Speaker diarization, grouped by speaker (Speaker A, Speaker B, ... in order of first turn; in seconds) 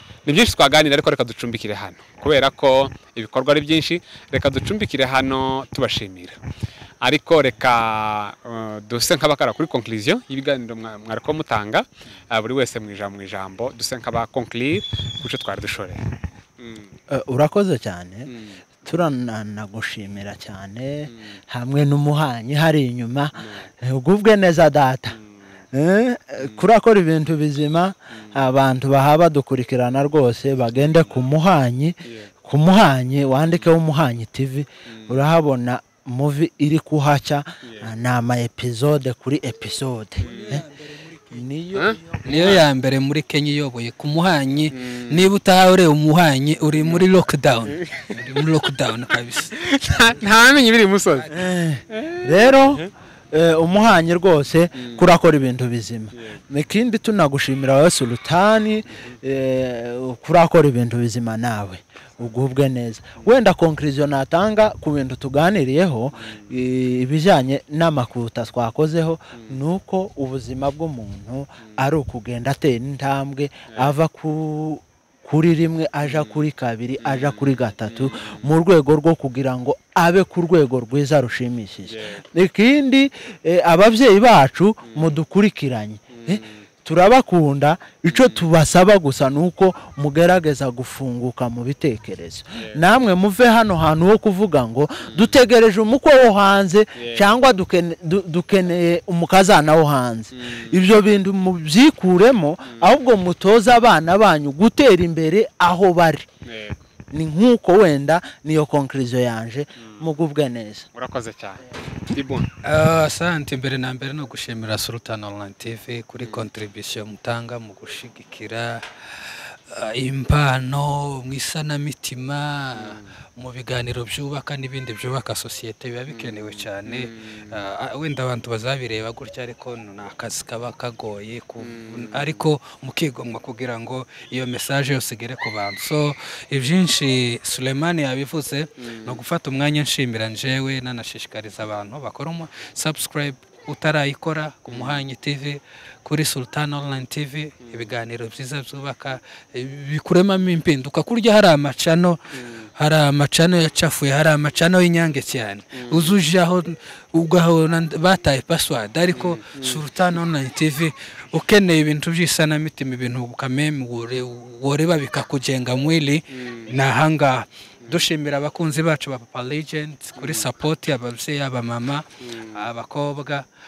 Speaker A: 0.3-6.4, 7.0-16.0, 16.6-16.9, 18.3-18.6, 21.1-21.4, 34.9-35.2, 37.6-37.9, 40.2-40.6, 41.7-42.6, 44.7-45.2, 47.7-48.5, 49.5-51.3, 51.9-52.9, 54.8-55.0, 76.1-76.4, 77.0-78.4, 81.9-82.2, 84.9-85.2, 86.1-86.5, 88.1-88.4, 95.1-95.3, 97.0-97.2, 100.3-100.8, 106.5-106.8, 111.0-112.5, 122.8-123.1, 126.1-127.5, 131.6-132.4, 144.7-145.0, 155.8-156.1, 159.1-159.8, 166.4-166.7, 170.2-170.5, 172.2-172.6
Speaker B: 17.1-18.3, 18.9-25.2, 25.7-40.6, 41.3-42.0, 51.3-106.3, 107.1-110.9
Speaker C: 42.2-49.6, 112.6-152.2, 152.8-173.4